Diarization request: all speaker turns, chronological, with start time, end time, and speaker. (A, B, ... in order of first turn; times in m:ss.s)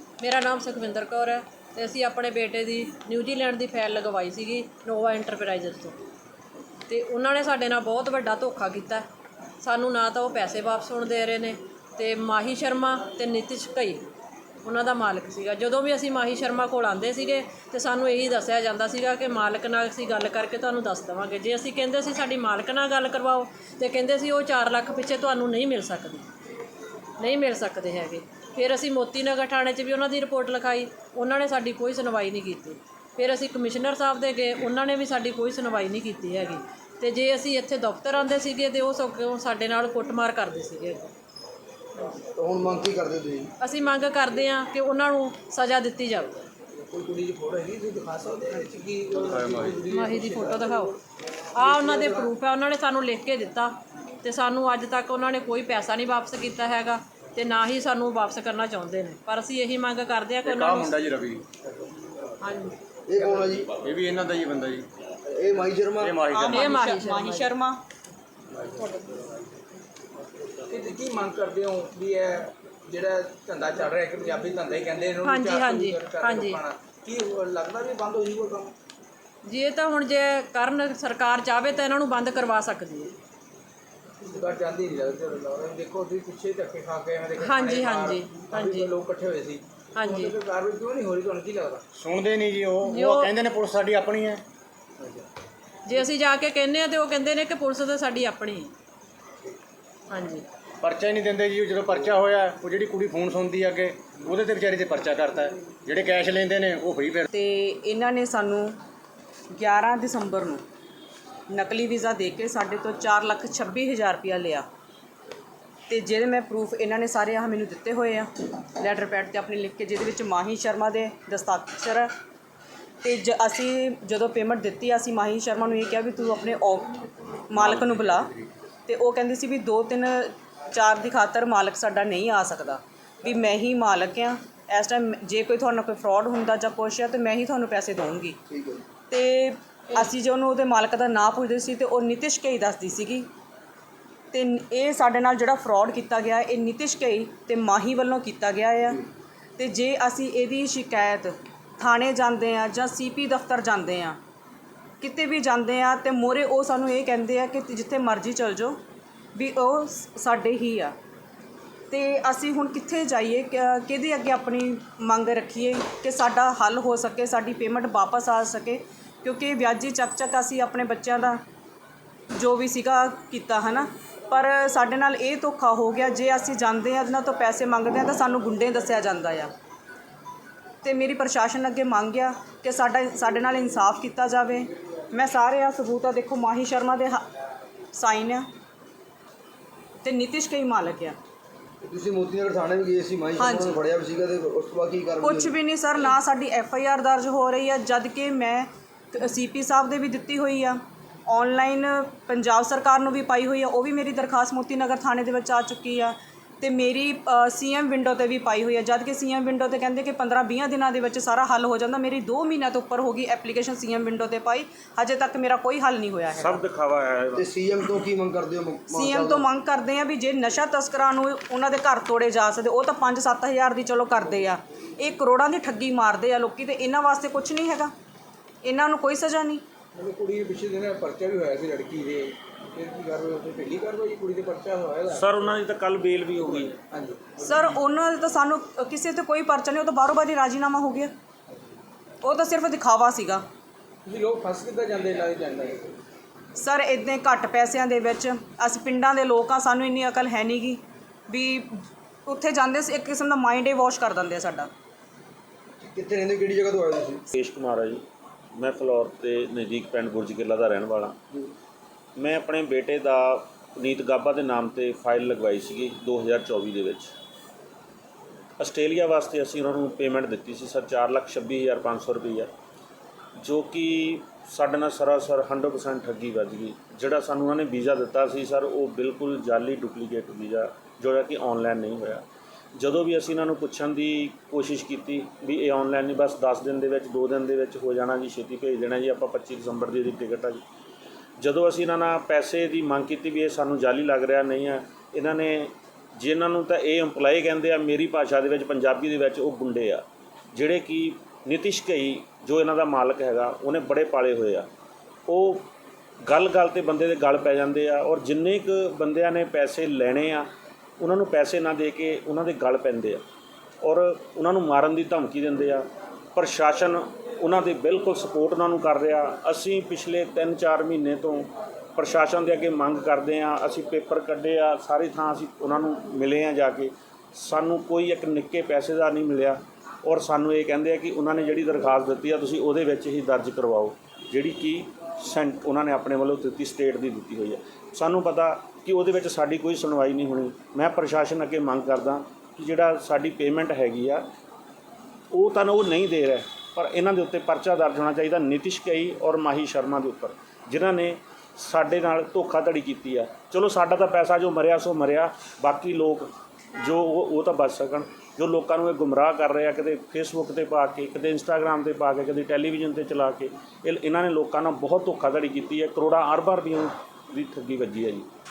0:00.2-0:06.0 A
0:06.9-0:09.1 A
0:09.6-0:14.0 A
0:14.6-0:26.3 A
0:27.2-0:41.1 A
0:42.4-0:43.5 B
0:43.6-0:46.3 A
0:46.9-0:50.9 C
0:49.3-0:49.9 D
0:49.8-0:51.0 A
0:51.5-1:01.0 A
0:51.6-0:52.2 C
1:00.5-1:01.4 D
1:02.4-1:02.8 A
1:03.1-1:03.7 B
1:03.7-1:04.8 D
1:05.3-1:06.1 B
1:06.0-1:06.6 D
1:06.3-1:07.8 E
1:06.4-1:07.5 A
1:10.7-1:18.7 C
1:15.2-1:16.6 A
1:19.4-1:23.1 A
1:24.2-1:31.8 C
1:27.4-1:28.9 A
1:30.0-1:30.3 A
1:31.9-1:34.4 D
1:32.8-1:33.3 A
1:35.9-1:38.7 A
1:40.1-1:40.4 A
1:40.8-1:47.2 D
1:47.3-1:48.8 E
1:49.5-1:50.6 E
1:51.5-1:54.7 E
1:55.9-2:02.1 E
2:03.0-2:08.3 E
2:08.9-2:18.4 E
2:18.5-2:18.8 B
2:19.1-2:23.3 E
2:24.3-2:29.0 E
2:29.6-2:34.2 E
2:35.0-2:38.8 E
2:39.4-2:41.0 E
2:41.9-2:51.4 E
2:52.4-2:59.5 E
3:00.8-3:07.2 E
3:07.9-3:08.5 E
3:10.0-3:11.2 E
3:11.8-3:15.5 B
3:13.4-3:13.8 E
3:15.2-3:36.6 E
3:36.4-3:37.6 F
3:37.3-3:39.5 B
3:38.9-3:47.9 E
3:48.6-3:49.6 E
3:50.0-3:55.4 C
3:55.1-3:56.8 F
3:56.9-3:57.2 C
3:57.4-4:01.1 E
4:02.2-4:03.4 E
4:04.0-4:05.9 C
4:06.6-4:11.7 E
4:12.3-4:14.7 E
4:15.8-4:17.2 B
4:17.4-4:18.0 F
4:18.6-4:21.2 F
4:22.2-4:27.1 F
4:28.6-4:32.5 F
4:33.4-4:42.2 F
4:42.8-4:50.6 F
4:51.4-5:04.7 F
5:05.3-5:05.7 F
5:06.3-5:10.5 F
5:11.0-5:13.2 F
5:13.8-5:44.2 F
5:45.3-5:56.3 F
5:56.8-6:08.3 F